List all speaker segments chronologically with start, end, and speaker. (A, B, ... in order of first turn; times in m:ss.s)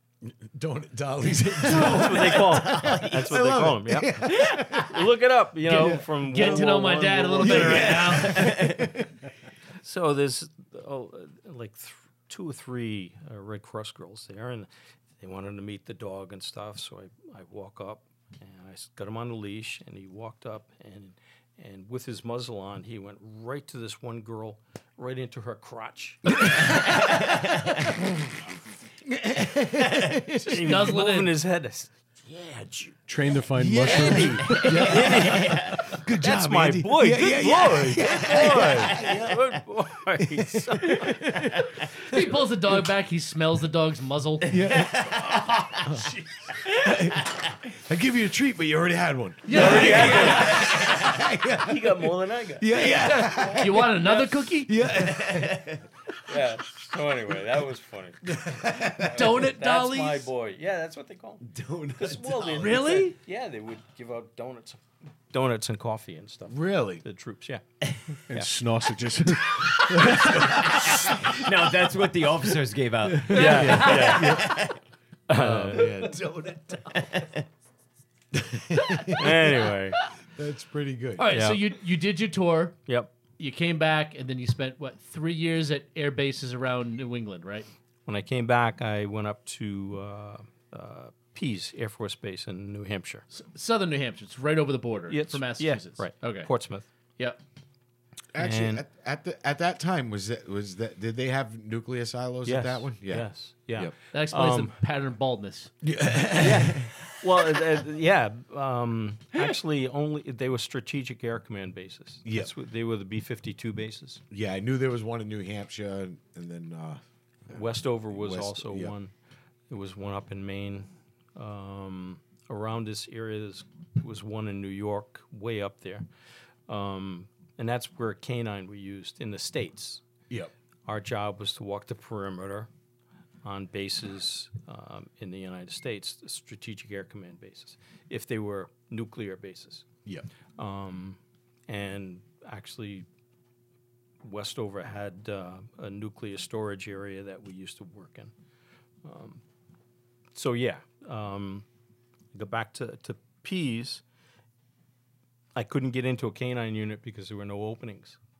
0:00.2-0:04.9 A
0:01.6-0:03.4 B
0:01.7-0:08.4 C
0:05.7-0:08.5 D
0:05.7-0:06.7 A
0:07.4-0:09.1 A
0:08.3-0:08.8 B
0:09.8-0:14.7 C
0:15.2-0:27.0 C
0:26.4-0:26.9 A
0:27.9-0:28.3 A
0:29.0-0:30.6 A
0:30.4-0:31.3 D
0:30.4-0:33.0 C
0:33.1-0:34.6 E
0:33.6-0:39.3 A
0:33.9-0:41.6 C
0:33.9-0:35.0 D
0:34.6-0:35.8 B
0:38.0-0:39.3 B
0:40.2-0:42.2 A
0:42.0-0:44.5 D
0:44.5-0:45.3 A
0:44.5-0:45.9 B
0:46.7-0:55.7 A
0:49.4-0:50.7 D
0:49.5-0:54.3 C
0:53.0-0:54.7 D
0:55.0-0:55.8 B
0:56.2-1:07.6 C
0:58.2-0:59.3 A
0:59.1-1:00.2 D
1:01.4-1:02.8 B
1:02.6-1:03.2 D
1:06.5-1:07.0 A
1:08.3-1:10.2 E
1:09.9-1:11.4 A
1:10.6-1:14.8 B
1:13.3-1:14.6 C
1:13.3-1:14.3 D
1:13.5-1:14.6 A
1:15.3-1:16.0 C
1:15.3-1:16.9 A
1:16.9-1:17.4 B
1:18.3-1:19.4 A
1:19.1-1:20.0 C
1:20.3-1:21.3 A
1:21.2-1:22.8 D
1:21.3-1:21.6 C
1:22.9-1:23.1 C
1:23.4-1:27.7 D
1:28.0-1:33.2 C
1:33.3-1:36.5 D
1:35.1-1:36.8 C
1:38.3-1:43.9 A
1:38.4-1:38.8 C
1:42.4-1:44.7 C
1:44.1-1:45.7 D
1:45.8-1:46.9 A
1:46.4-1:54.2 C
1:52.2-1:52.5 A
1:54.3-1:58.9 A
1:57.5-1:59.1 C
1:59.7-2:06.1 C
2:06.7-2:10.0 C
2:10.8-2:12.7 C
2:13.4-2:19.8 C
2:20.6-2:23.0 C
2:24.2-2:28.3 C
2:29.0-2:29.4 C
2:30.3-2:31.6 C
2:32.3-2:34.0 C
2:35.5-2:38.2 C